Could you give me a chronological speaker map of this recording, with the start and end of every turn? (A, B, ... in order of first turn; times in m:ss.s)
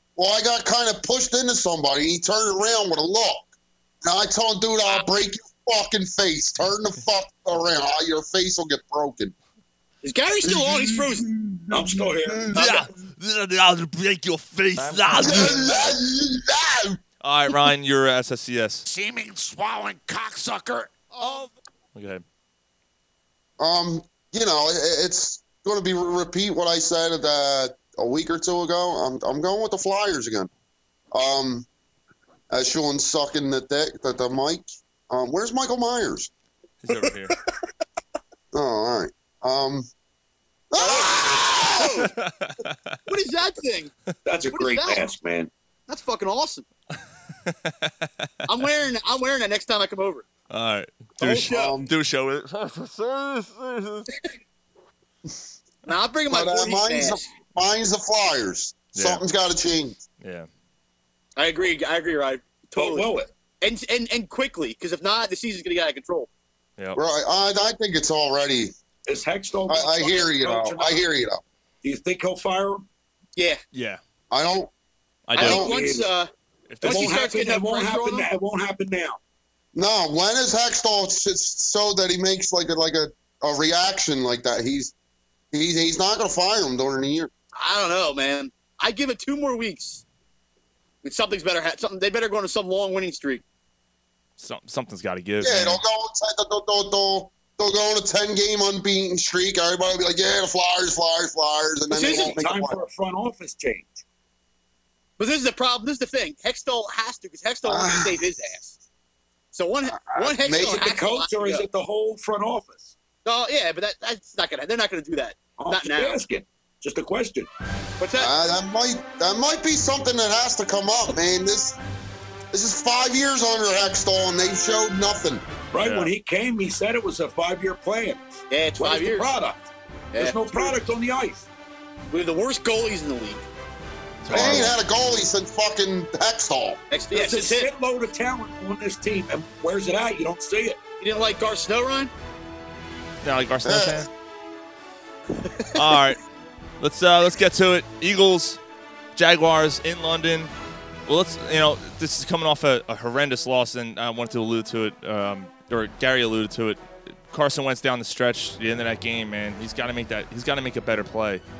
0:00.2-0:09.3 A
0:10.0-0:11.3 B
0:10.4-0:12.6 A
0:11.7-0:12.6 C
0:12.5-0:15.9 D
0:14.8-0:15.8 E
0:15.2-0:17.0 A
0:17.2-0:18.8 D
0:18.8-0:20.9 E
0:21.2-0:22.2 D
0:23.6-0:30.5 A
0:31.1-0:31.7 A
0:32.5-0:36.3 A
0:36.8-0:37.4 D
0:38.5-0:39.9 A
0:40.7-0:42.1 A
0:40.8-0:42.1 B
0:42.1-0:43.0 D
0:43.1-0:43.9 B
0:44.2-0:45.5 C
0:44.5-0:45.0 B
0:45.9-0:46.6 B
0:47.4-0:48.3 D
0:48.5-0:50.3 B
0:50.5-0:54.1 D
0:51.2-0:51.8 B
0:51.5-0:51.9 A
0:55.8-0:57.2 B
0:56.3-1:00.0 A
0:58.9-0:59.2 D
1:00.2-1:00.5 D
1:01.4-1:03.1 B
1:02.7-1:03.3 C
1:03.6-1:06.3 B
1:06.9-1:08.7 A
1:09.0-1:11.0 C
1:09.7-1:11.4 A
1:11.8-1:12.8 C
1:13.7-1:14.0 D
1:14.3-1:14.7 A
1:15.3-1:15.7 D
1:15.3-1:16.3 B
1:15.4-1:15.7 A
1:15.4-1:16.1 C
1:16.7-1:17.2 D
1:16.8-1:18.3 B
1:16.8-1:19.2 C
1:19.7-1:24.9 A
1:25.5-1:27.3 A
1:27.6-1:30.0 B
1:31.0-1:33.4 B
1:34.4-1:35.8 D
1:35.4-1:42.8 A
1:41.9-1:42.4 B
1:42.0-1:44.0 C
1:45.2-1:48.8 B
1:47.6-1:48.2 A
1:49.5-1:51.6 B
1:49.9-1:50.8 A
1:50.5-1:52.9 C
1:53.2-1:56.2 B
1:55.6-1:57.5 C
1:58.0-1:58.3 B
1:58.2-2:01.8 A
2:02.5-2:05.4 A
2:05.7-2:11.5 C
2:05.8-2:06.1 D
2:08.5-2:09.3 B
2:10.1-2:10.8 B
2:12.1-2:13.4 B
2:14.2-2:14.8 D
2:14.3-2:16.8 A
2:16.9-2:17.7 B
2:17.1-2:20.8 C
2:21.0-2:22.1 B
2:23.2-2:24.1 D
2:23.6-2:24.1 A
2:25.7-2:26.2 D
2:26.8-2:28.6 D
2:29.2-2:30.5 D
2:31.0-2:41.4 D